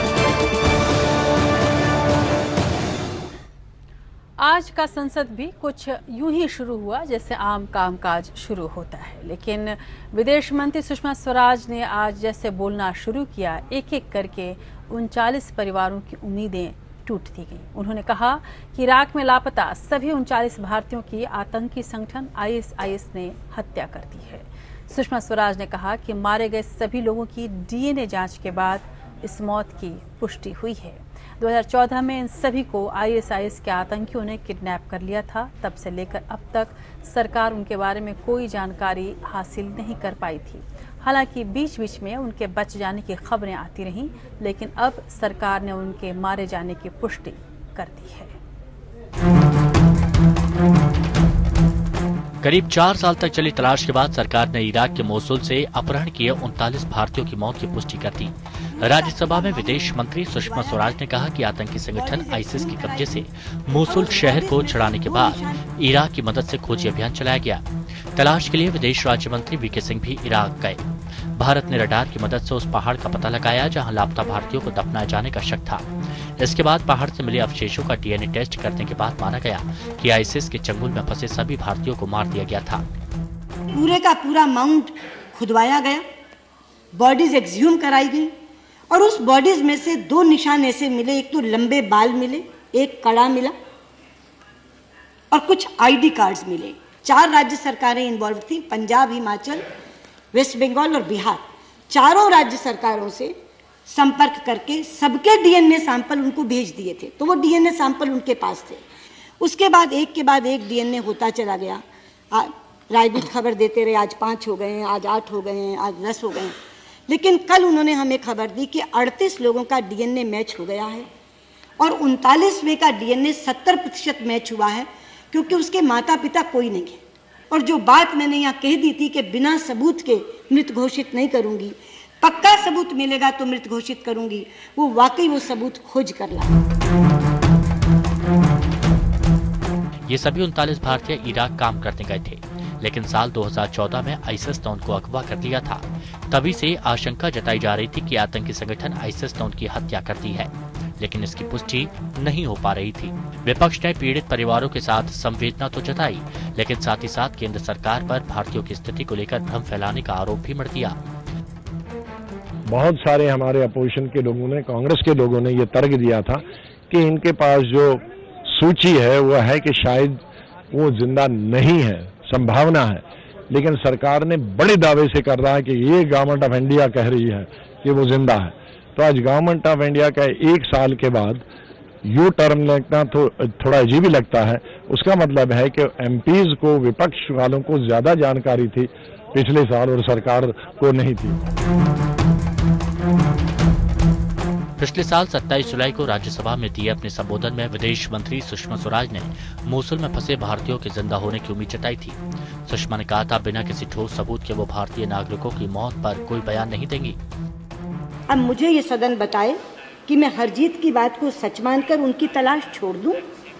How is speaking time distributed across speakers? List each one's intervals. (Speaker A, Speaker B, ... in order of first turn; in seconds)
Speaker A: 4.4-48.4
Speaker B: 52.4-67.6, 68.1-70.8, 71.3-75.8, 76.4-82.8, 140.1-161.0, 194.8-207.2
Speaker C: 58.7-61.0, 61.9-63.1, 63.8-65.6, 83.7-86.0, 86.9-88.3, 88.9-93.5, 95.3-99.7, 100.3-103.3, 103.9-108.8, 109.4-116.5, 117.1-121.1, 121.8-127.0, 127.5-136.5, 208.3-213.2
Speaker D: 162.7-181.4, 182.1-191.4